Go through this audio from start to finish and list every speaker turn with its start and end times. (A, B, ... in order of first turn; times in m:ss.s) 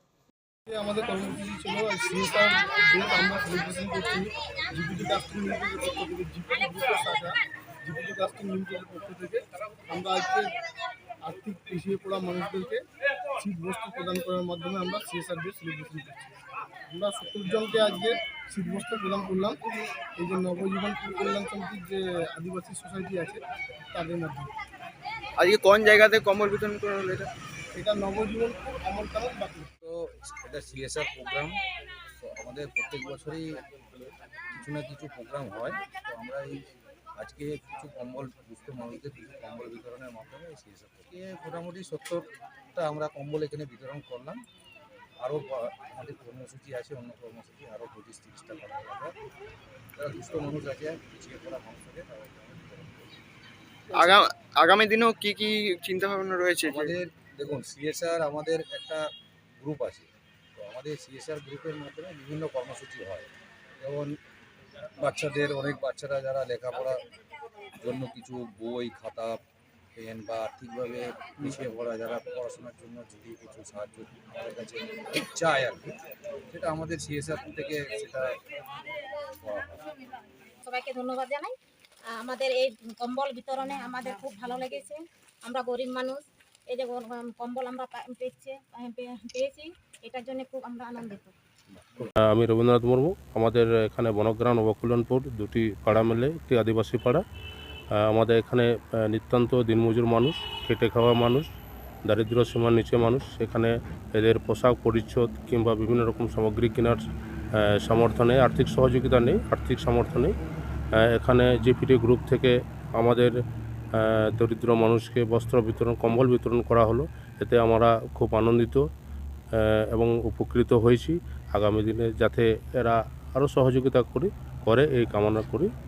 0:00.7-0:10.5 A
0:11.2-0:12.8 A
0:13.4-0:16.3 A
0:16.9-0:19.6 A
0:20.2-0:23.4 A
0:23.9-0:24.5 A
0:25.4-0:27.3 B
0:27.7-0:29.7 A
0:29.8-0:31.5 C
0:32.2-0:33.5 C
0:34.6-0:36.6 C
0:37.2-0:42.2 C
0:42.7-0:44.4 C
0:45.2-0:49.1 C
0:50.0-0:53.1 C
0:53.9-0:56.9 B
0:56.6-0:59.0 C
0:59.6-1:03.3 C
1:03.8-1:04.1 C
1:05.0-1:07.0 C
1:07.8-1:09.4 C
1:10.0-1:15.9 C
1:16.5-1:18.3 C
1:19.4-1:19.9 C
1:20.6-1:21.5 D
1:22.2-1:31.3 D
1:32.0-1:37.2 E
1:38.0-1:41.5 E
1:42.1-1:47.0 E
1:47.6-1:50.4 E
1:51.0-1:53.3 E
1:54.0-1:58.8 E
1:59.6-2:05.7 E